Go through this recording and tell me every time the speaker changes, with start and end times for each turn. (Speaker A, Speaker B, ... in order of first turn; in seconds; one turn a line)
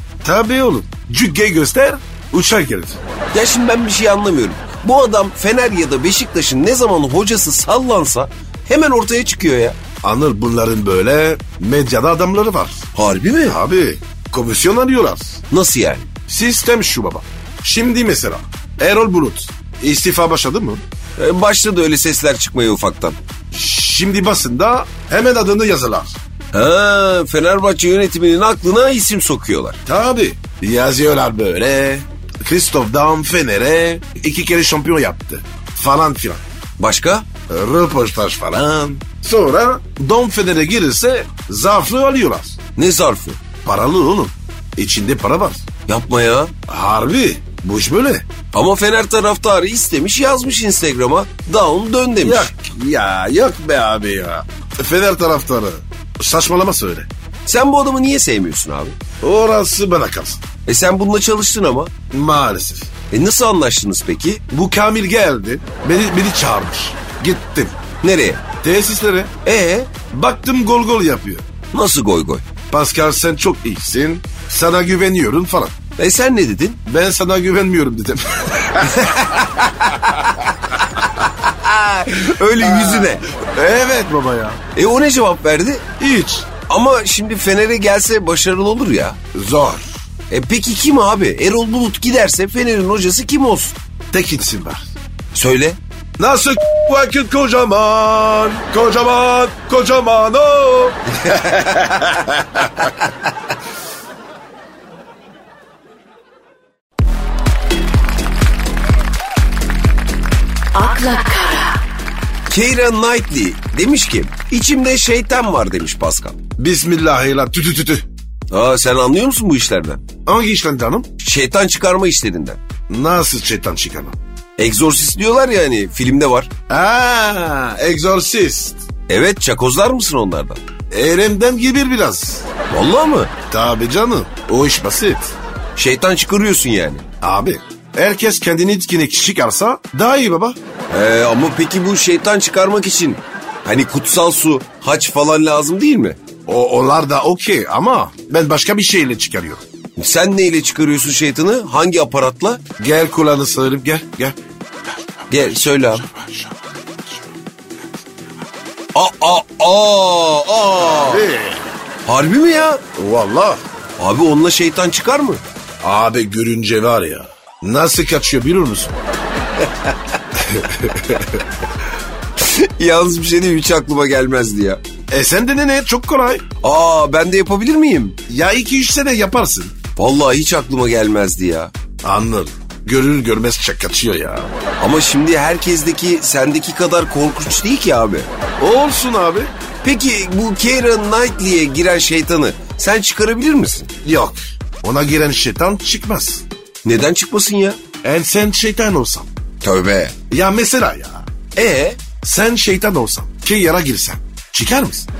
Speaker A: 0.2-3.0
Speaker B: 3.3-9.8
Speaker A: 10.0-12.8
Speaker B: 12.9-13.6
Speaker A: 13.4-15.4
Speaker B: 15.5-16.1
Speaker A: 16.3-20.8
Speaker B: 21.2-23.2
Speaker A: 23.5-26.2
Speaker B: 26.5-29.8
Speaker A: 29.9-36.4
Speaker B: 36.8-37.3
Speaker A: 37.5-42.5
Speaker B: 42.8-43.4
Speaker A: 43.6-45.6
Speaker B: 45.9-46.5
Speaker A: 46.7-48.2
Speaker B: 48.5-52.5
Speaker A: 52.2-57.1
Speaker B: 57.5-59.0
Speaker A: 59.2-60.4
Speaker B: 60.6-61.9
Speaker A: 62.1-62.9
Speaker B: 63.1-64.4
Speaker A: 64.5-67.8
Speaker B: 68.0-68.4
Speaker A: 68.6-69.3
Speaker B: 69.4-69.9
Speaker A: 70.1-71.4
Speaker B: 71.7-72.5
Speaker A: 72.7-75.7
Speaker B: 76.0-76.8
Speaker A: 76.8-80.1
Speaker B: 78.8-83.3
Speaker A: 82.5-84.6
Speaker B: 84.7-85.8
Speaker A: 86.0-86.5
Speaker B: 86.7-89.2
Speaker A: 89.3-89.9
Speaker B: 90.3-93.8
Speaker A: 94.1-94.8
Speaker B: 95.3-95.8
Speaker A: 96.2-102.7
Speaker B: 110.8-111.7
Speaker B: 112.5-116.4
Speaker A: 116.6-118.0
Speaker B: 118.5-120.0
Speaker A: 120.2-121.1
Speaker B: 121.2-122.6
Speaker A: 122.9-124.2
Speaker B: 124.6-126.5
Speaker A: 126.7-128.8
Speaker B: 129.1-130.6
Speaker A: 130.9-132.5
Speaker B: 132.7-133.3
Speaker A: 133.5-135.3
Speaker B: 135.8-137.0
Speaker A: 137.2-140.6
Speaker B: 140.9-146.2
Speaker A: 146.5-149.6
Speaker B: 150.0-152.6
Speaker A: 152.8-154.4
Speaker A: 155.1-157.2
Speaker B: 155.3-156.1
Speaker B: 158.9-161.2
Speaker A: 160.8-161.7
Speaker B: 162.1-162.8
Speaker A: 162.9-163.6
Speaker B: 164.0-165.4
Speaker A: 165.8-169.0
Speaker A: 170.3-171.4
Speaker B: 172.4-174.8
Speaker A: 175.1-176.4
Speaker B: 176.6-178.2
Speaker A: 178.3-179.7
Speaker B: 179.9-181.7
Speaker A: 182.0-184.5
Speaker B: 184.8-188.3
Speaker A: 188.6-189.5
Speaker B: 189.8-193.9
Speaker A: 194.0-196.4
Speaker B: 196.8-197.8
Speaker A: 198.0-199.3
Speaker B: 199.6-200.2
Speaker A: 200.3-201.3
Speaker B: 201.6-202.0
Speaker A: 202.2-205.1